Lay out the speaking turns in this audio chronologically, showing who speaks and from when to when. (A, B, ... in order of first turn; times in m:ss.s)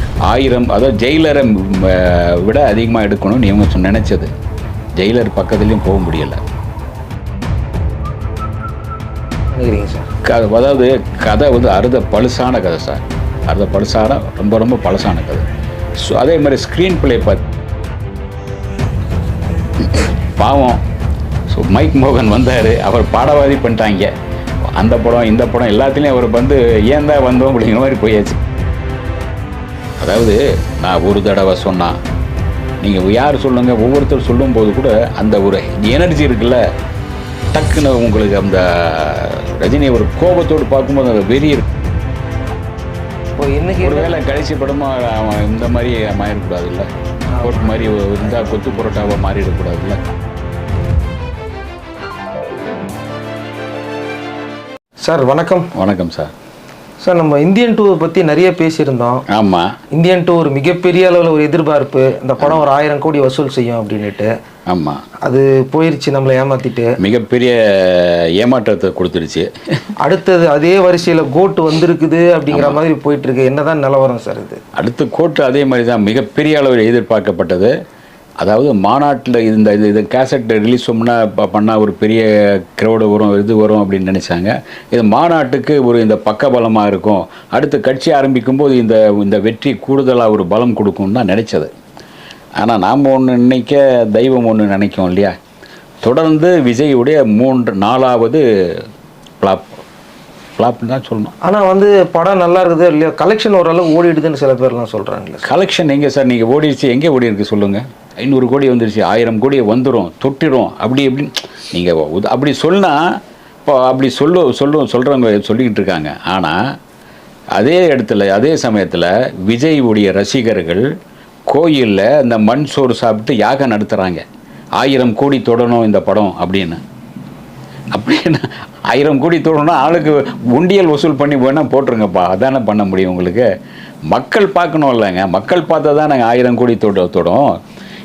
0:00.3-0:04.3 A
0:05.0-0:06.4 A
0:09.5-0:10.1 B
0:10.2-0:15.4 A
0:16.0-0:17.4 A
0:19.8-0:20.8 A
0:21.5-0:24.1 A
0:24.8-0:28.4 A
0:30.0-0:32.0 A
0:32.8-0:36.6 A
0:37.5-0:41.6 A
0:43.4-0:44.1 B
0:43.8-0:46.9 A
0:47.4-0:47.7 B
0:47.4-0:50.0 A
0:55.0-0:55.7 B
0:55.7-0:56.3 A
0:57.0-0:59.2 B
0:59.3-0:59.8 A
0:59.9-1:04.3 B
1:04.7-1:05.0 A
1:05.2-1:06.9 B
1:07.0-1:09.5 A
1:10.0-1:14.6 B
1:12.5-1:12.8 A
1:14.8-1:17.7 A
1:18.4-1:31.7 A
1:32.6-1:35.4 A
1:36.0-1:38.9 A
1:39.4-1:39.8 A
1:40.6-1:41.3 A
1:41.4-1:45.5 B
1:45.4-1:56.6 A
1:57.6-2:00.9 A
2:01.5-2:04.2 A
2:04.8-2:06.8 A
2:07.9-2:13.5 A
2:14.1-2:17.5 A